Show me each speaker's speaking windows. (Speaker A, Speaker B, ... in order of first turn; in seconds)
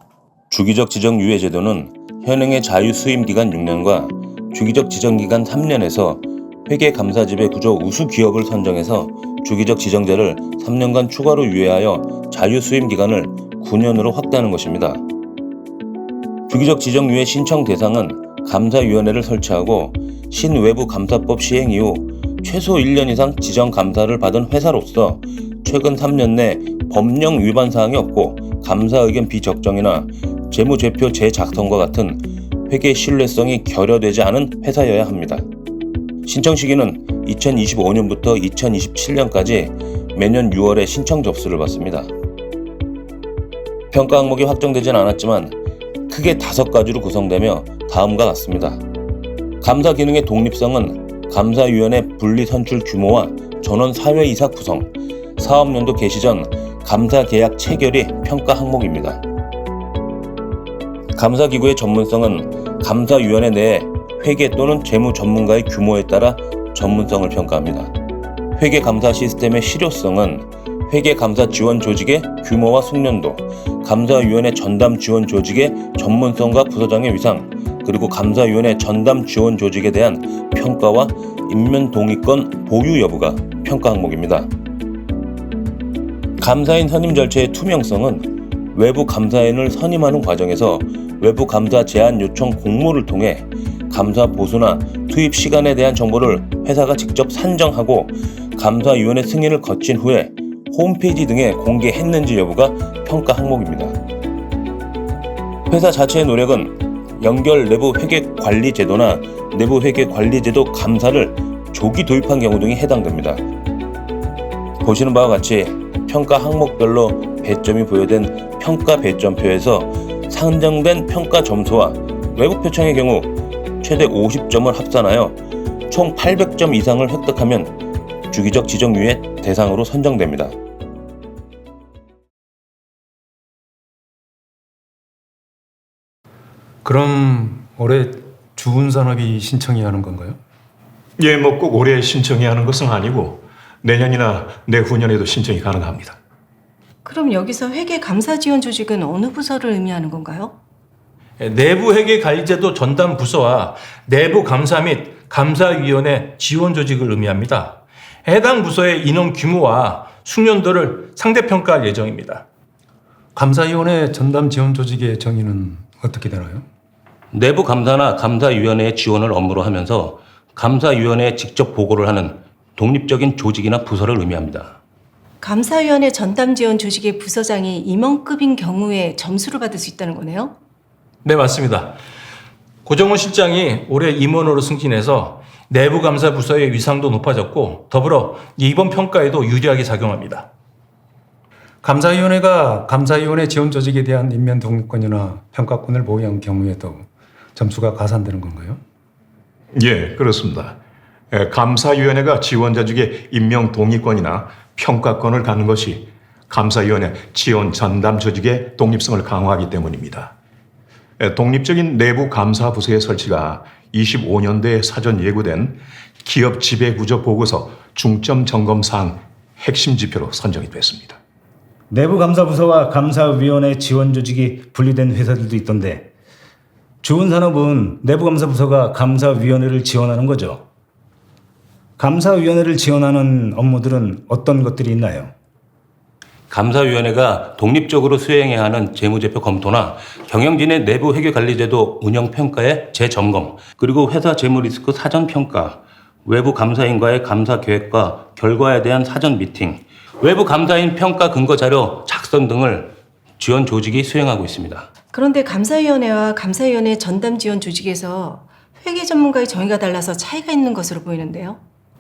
Speaker A: 0.5-15.0, 16.5-35.5, 36.2-42.1, 43.9-45.5, 46.1-48.8, 49.6-59.2, 61.1-67.9, 68.6-84.5, 86.4-104.0, 105.7-113.4, 114.8-125.4, 125.9-127.8, 128.3-130.6, 167.3-174.8, 236.5-254.9
Speaker B: 136.8-140.4, 163.3-166.7, 191.8-198.8
Speaker C: 141.2-146.2, 199.7-200.8, 201.3-210.3, 211.2-221.2
Speaker D: 147.0-150.6, 175.4-180.6, 255.1-261.6
Speaker E: 151.4-162.4, 181.2-182.0, 182.8-190.5
Speaker F: 221.9-226.1, 227.0-230.6, 232.0-235.3